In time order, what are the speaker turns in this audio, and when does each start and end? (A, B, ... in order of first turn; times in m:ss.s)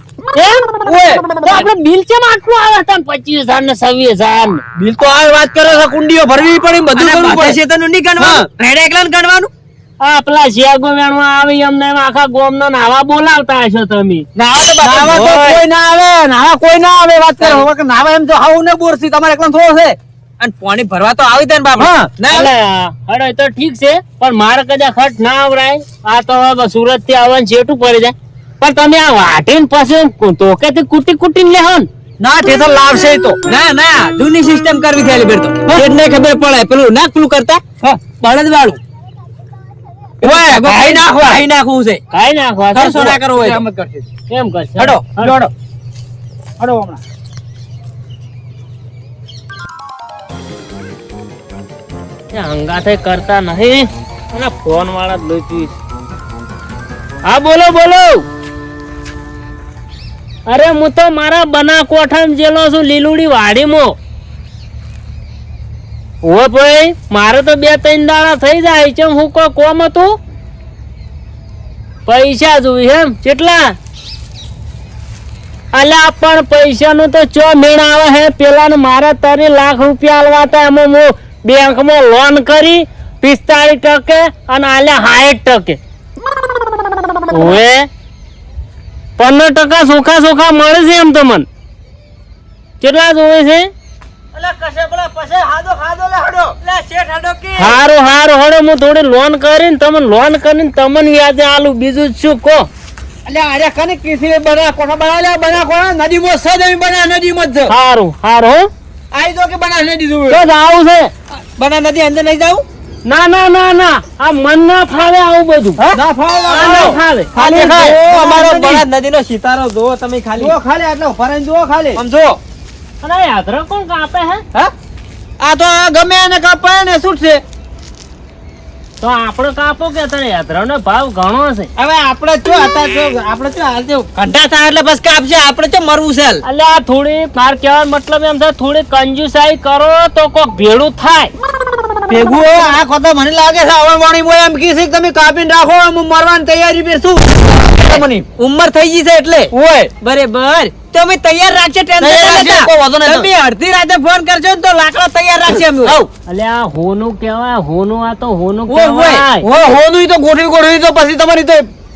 0:00.3-0:04.6 A
0:00.8-0:01.3 B
0:04.8-0:07.6 B
0:06.9-0:09.5 C
0:08.2-0:08.5 B
0:10.0-0:14.2 A
0:14.4-0:15.6 C
0:14.8-0:20.0 B
0:17.4-0:17.6 C
0:20.4-0:22.5 C
0:21.8-0:22.1 B
0:22.3-0:31.9 A
0:32.2-0:33.4 B
0:33.4-0:38.8 C
0:40.2-0:41.4 B
0:40.2-0:42.0 C
0:42.1-0:43.2 A
0:42.7-0:43.6 C
0:43.3-0:44.1 B
0:44.3-0:45.4 A
0:44.8-0:45.0 C
0:45.2-0:45.5 B
0:46.6-0:47.0 B
0:52.3-0:55.8 A
0:57.2-0:58.2 A
1:00.5-1:04.0 A
1:06.2-1:10.2 A
1:12.0-1:13.7 A
1:15.7-1:25.8 A
1:27.2-1:27.9 A
1:29.2-1:31.4 A
1:32.8-1:33.7 A
1:34.3-1:36.6 B
1:36.6-1:37.8 C
1:37.6-1:42.7 A
1:43.2-1:47.7 B
1:47.7-1:48.7 A
1:49.1-1:50.4 B
1:50.3-1:51.1 A
1:51.6-1:52.6 C
1:53.0-1:55.8 A
1:55.8-2:00.5 C
1:55.9-1:58.8 B
1:56.5-1:57.3 A
2:00.4-2:02.0 B
2:02.0-2:02.4 C
2:03.0-2:04.4 A
2:05.4-2:07.4 B
2:06.4-2:07.1 C
2:09.0-2:11.7 A
2:11.8-2:14.2 B
2:14.2-2:16.4 C
2:16.4-2:21.3 A
2:22.1-2:28.2 B
2:28.4-2:36.0 C
2:29.5-2:29.9 B
2:32.0-2:33.3 B
2:35.5-2:36.0 B
2:36.3-2:39.5 A
2:38.7-2:39.2 C
2:39.4-2:41.6 B